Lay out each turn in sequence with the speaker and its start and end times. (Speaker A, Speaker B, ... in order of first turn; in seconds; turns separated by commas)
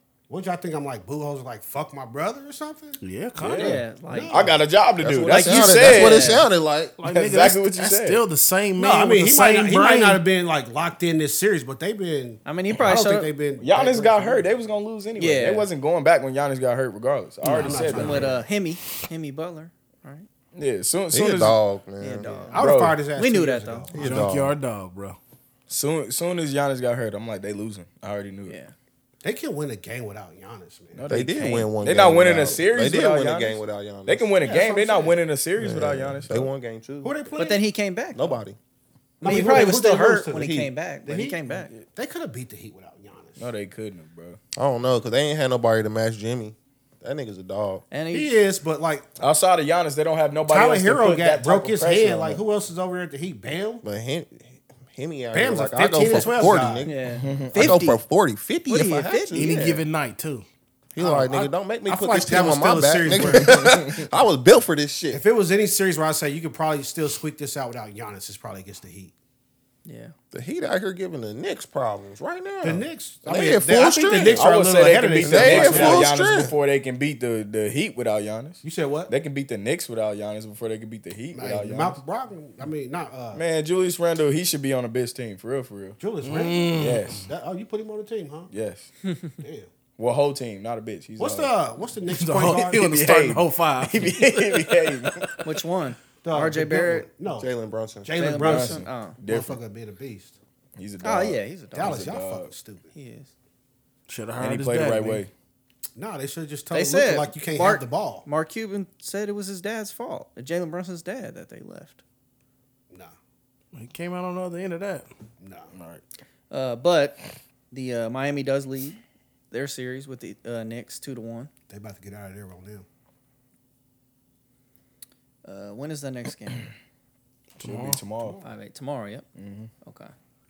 Speaker A: 0.3-3.0, Speaker B: 3.0-3.8, Speaker C: 3.4-6.3, Speaker D: 3.6-4.4, Speaker A: 4.1-4.6, Speaker E: 5.0-7.0, Speaker D: 5.0-6.5, Speaker B: 7.0-10.2, Speaker C: 7.0-8.2, Speaker A: 8.8-14.5, Speaker D: 12.4-13.3, Speaker C: 13.6-18.4, Speaker D: 15.2-15.7, Speaker A: 17.5-18.5, Speaker B: 17.5-17.8, Speaker D: 17.9-20.3, Speaker C: 20.6-21.6, Speaker E: 21.1-22.6, Speaker D: 22.0-23.9, Speaker A: 22.5-24.2, Speaker C: 22.6-23.0, Speaker E: 23.9-24.5, Speaker B: 24.0-25.2, Speaker C: 25.7-28.6, Speaker D: 28.5-28.7, Speaker A: 29.2-31.1, Speaker C: 30.9-36.5, Speaker E: 31.1-34.3, Speaker D: 31.4-31.7, Speaker A: 34.4-35.2, Speaker E: 35.6-37.2, Speaker A: 37.0-37.6, Speaker D: 37.4-38.4, Speaker E: 38.1-38.6, Speaker A: 39.2-43.5, Speaker D: 39.2-41.7, Speaker E: 39.3-39.8, Speaker E: 40.4-40.7, Speaker C: 43.4-44.4, Speaker E: 44.6-47.8, Speaker D: 47.9-48.4, Speaker A: 48.1-49.2, Speaker C: 49.2-52.4, Speaker A: 50.5-53.8, Speaker E: 53.8-56.9, Speaker A: 55.3-56.9, Speaker D: 56.8-58.0, Speaker C: 57.2-57.8, Speaker E: 57.5-59.8, Speaker D: 58.7-59.6, Speaker B: 59.3-60.5, Speaker E: 61.0-65.2, Speaker A: 61.0-63.7, Speaker A: 65.1-69.1, Speaker D: 69.8-70.1, Speaker E: 70.3-74.4, Speaker A: 72.6-76.1, Speaker C: 74.3-82.0, Speaker E: 75.2-76.5, Speaker A: 78.6-79.1, Speaker A: 81.3-83.4, Speaker C: 83.3-86.0, Speaker A: 86.0-88.5, Speaker B: 86.2-87.2, Speaker C: 86.8-87.3, Speaker C: 88.5-88.9, Speaker A: 89.4-89.7, Speaker C: 90.0-91.5, Speaker A: 91.2-92.8, Speaker B: 92.1-95.3, Speaker C: 92.5-95.4, Speaker D: 95.4-97.1, Speaker A: 96.2-97.5, Speaker E: 97.3-98.1, Speaker A: 98.0-100.4, Speaker D: 98.2-99.2, Speaker C: 98.4-99.6, Speaker C: 100.8-102.5, Speaker D: 101.0-102.0, Speaker A: 101.7-102.9, Speaker D: 103.0-103.3, Speaker B: 104.1-105.2, Speaker C: 104.4-105.3, Speaker A: 106.0-108.3, Speaker D: 106.7-112.0, Speaker B: 113.7-115.1, Speaker A: 115.4-115.7, Speaker C: 115.8-116.0, Speaker D: 116.5-117.2, Speaker D: 117.7-119.0, Speaker D: 119.5-121.5, Speaker A: 121.7-122.9, Speaker D: 125.5-126.7, Speaker B: 127.6-128.4, Speaker C: 127.6-128.4, Speaker D: 128.4-129.2, Speaker C: 129.3-129.7, Speaker D: 129.8-130.1